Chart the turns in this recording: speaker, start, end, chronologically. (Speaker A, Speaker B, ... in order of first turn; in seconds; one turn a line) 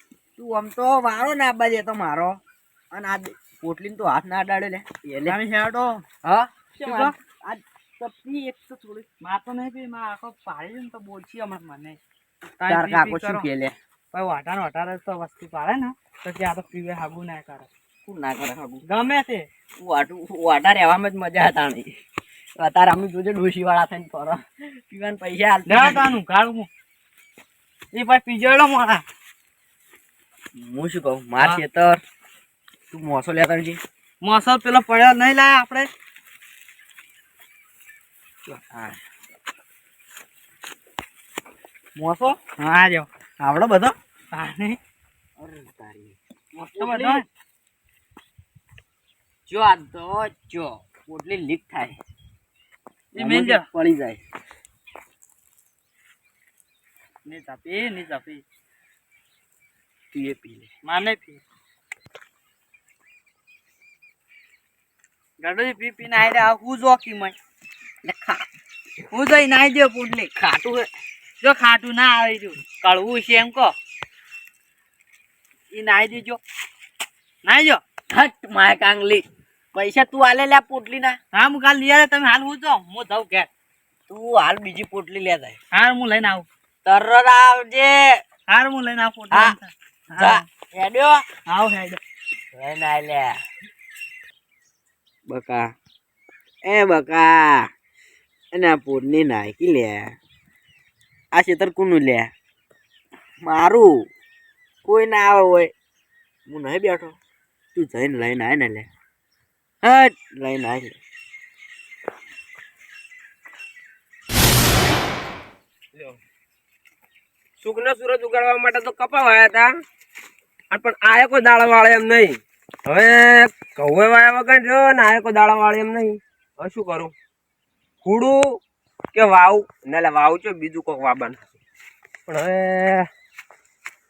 Speaker A: 0.4-2.4
Speaker A: 2.9-5.4
Speaker B: 5.3-6.0
Speaker A: 6.2-9.1
Speaker B: 6.8-7.2
Speaker B: 8.0-8.6
Speaker B: 9.2-12.0
Speaker B: 12.6-13.5
Speaker A: 12.7-13.8
Speaker B: 14.1-17.7
Speaker A: 18.0-18.8
Speaker B: 18.9-19.5
Speaker A: 19.8-21.9
Speaker A: 22.6-26.2
Speaker B: 25.7-26.7
Speaker B: 27.9-29.0
Speaker A: 30.6-32.0
Speaker A: 32.9-33.8
Speaker B: 34.2-35.9
Speaker A: 38.5-39.0
Speaker B: 42.0-43.1
Speaker A: 43.4-43.9
Speaker B: 44.3-44.8
Speaker A: 45.4-46.2
Speaker B: 46.5-47.2
Speaker A: 46.8-47.2
Speaker A: 49.5-52.0
Speaker B: 53.1-53.7
Speaker A: 53.2-54.2
Speaker B: 57.3-58.4
Speaker A: 60.1-60.7
Speaker B: 60.8-61.4
Speaker B: 65.4-67.3
Speaker A: 68.0-68.5
Speaker B: 69.1-70.3
Speaker A: 70.3-70.9
Speaker B: 71.4-73.7
Speaker B: 75.7-76.4
Speaker B: 77.4-77.8
Speaker A: 78.1-81.2
Speaker B: 81.3-83.5
Speaker A: 84.1-85.6
Speaker B: 85.7-86.5
Speaker A: 86.8-88.2
Speaker B: 88.5-90.5
Speaker A: 89.3-89.6
Speaker A: 90.2-91.3
Speaker B: 91.5-92.0
Speaker A: 92.5-93.4
Speaker A: 95.3-95.7
Speaker A: 96.7-97.7
Speaker A: 98.5-100.1
Speaker A: 101.3-102.3
Speaker A: 103.4-103.9
Speaker A: 104.8-105.7
Speaker A: 106.5-107.2
Speaker A: 107.8-108.9
Speaker A: 109.8-111.0
Speaker C: 117.6-119.7
Speaker C: 120.7-127.1
Speaker C: 128.0-128.6
Speaker C: 129.1-131.5
Speaker C: 132.3-133.1